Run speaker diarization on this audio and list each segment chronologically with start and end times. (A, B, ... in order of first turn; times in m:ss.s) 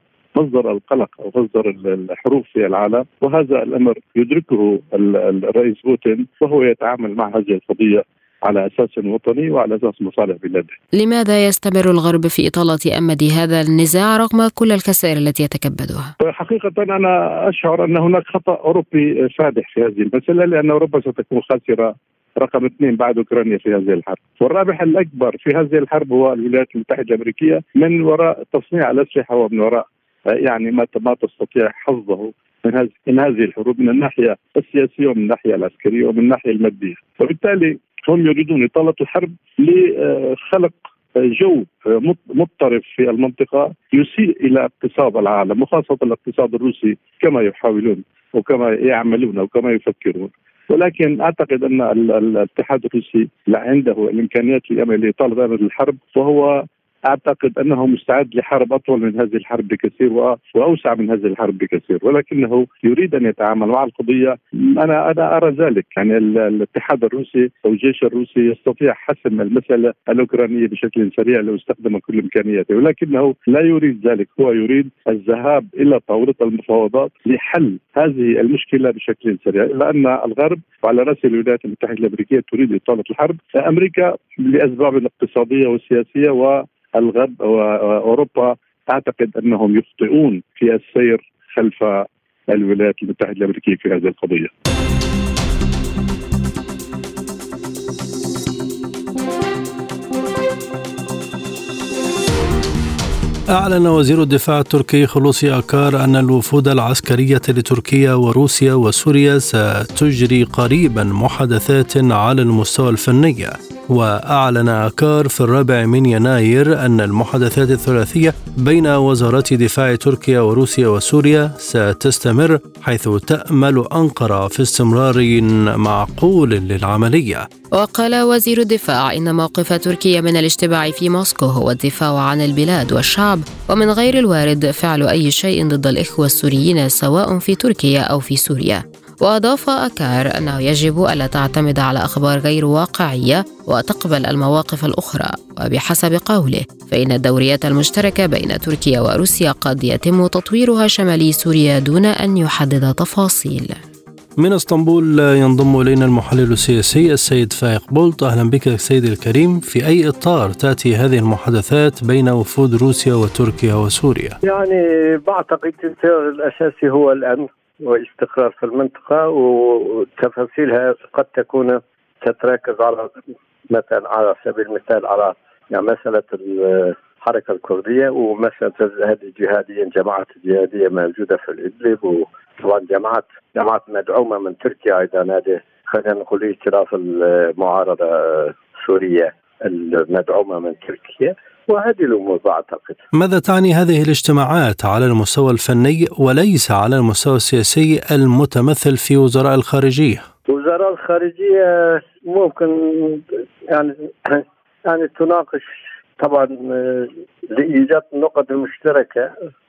0:00.3-0:10.8 A
0:11.0-0:16.1 B
0:16.2-0:29.8 A
0:30.4-0:56.5 A
0:57.1-1:34.5 A
1:43.6-2:07.4 C
2:07.7-2:33.8 B
2:34.4-2:44.4 C
2:44.4-2:53.1 D
2:53.7-3:13.0 D
3:13.1-3:20.2 C
3:20.5-3:29.3 D